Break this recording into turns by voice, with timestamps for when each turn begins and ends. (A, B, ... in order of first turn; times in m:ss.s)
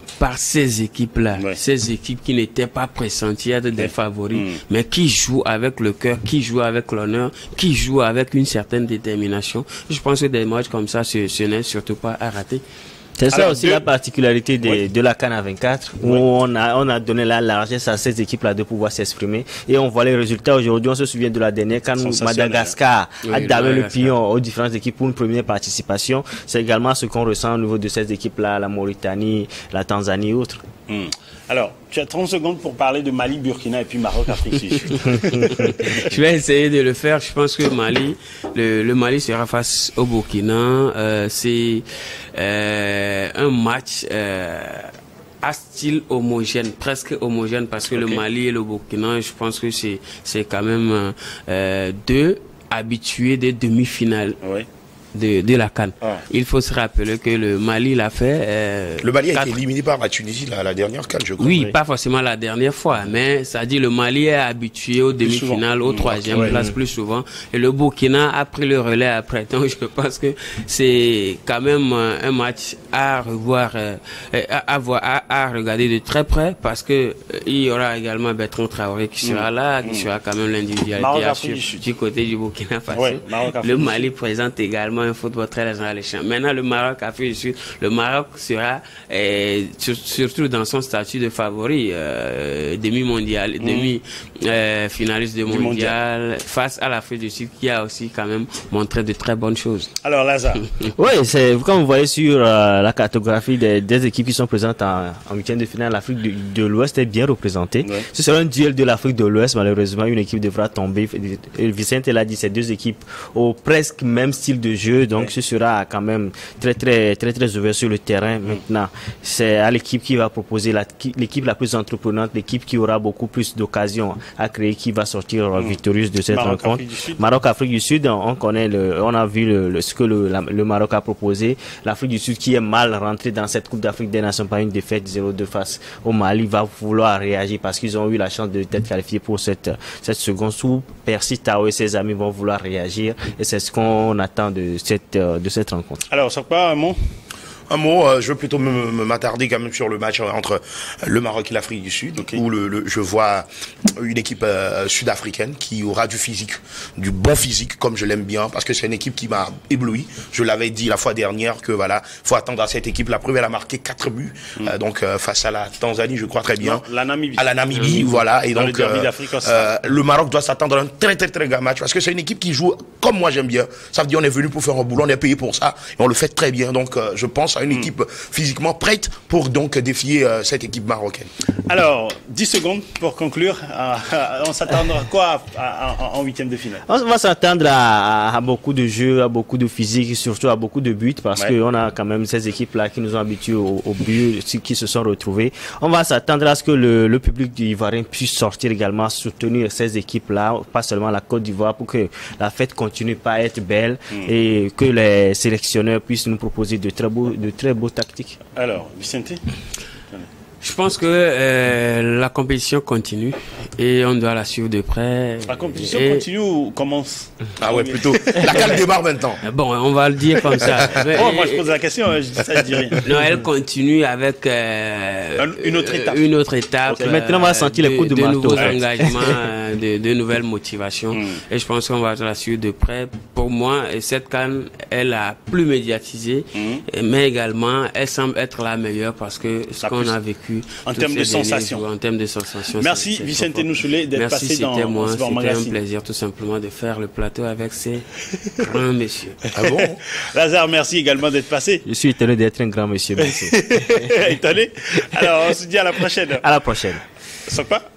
0:00.2-0:12.6 A
0:03.8-0:04.6 B
0:13.2-0:30.6 C
0:13.3-0:13.9 B
0:22.0-0:22.8 B
0:23.2-0:24.1 A
0:30.9-0:35.9 B
0:35.3-0:54.4 A
0:47.9-0:48.2 B
0:54.4-0:54.7 B
0:55.1-0:59.6 A
0:59.0-1:01.7 D
1:01.4-1:39.9 A
1:05.2-1:06.7 B
1:06.0-1:06.6 D
1:19.2-1:20.1 B
1:21.0-1:21.8 B
1:22.9-1:24.1 B
1:33.6-1:34.0 B
1:35.4-1:36.0 B
1:40.0-1:40.6 B
1:41.0-2:26.0 C
2:05.5-2:07.2 B
2:26.1-2:27.0 B
2:27.7-3:01.3 D
2:46.6-2:49.7 B
2:47.7-2:48.2 A
3:01.7-3:06.8 B
3:06.9-3:28.4 C
3:28.6-3:29.4 B
3:30.6-3:36.2 A
3:35.5-3:38.8 B
3:37.6-3:39.4 D
3:39.4-3:41.7 A
3:40.8-3:43.1 B
3:43.0-4:09.5 A
3:45.4-3:46.3 B
3:46.9-3:47.2 B
3:47.0-3:49.3 C
3:51.1-3:51.4 B
3:56.6-3:56.8 B
3:59.8-4:00.2 B
4:00.8-4:01.8 B
4:02.8-4:05.8 B
4:09.6-4:10.0 D
4:09.6-4:11.8 B
4:11.9-4:13.7 C
4:13.2-4:16.5 B
4:16.4-4:17.0 C
4:17.5-4:17.8 B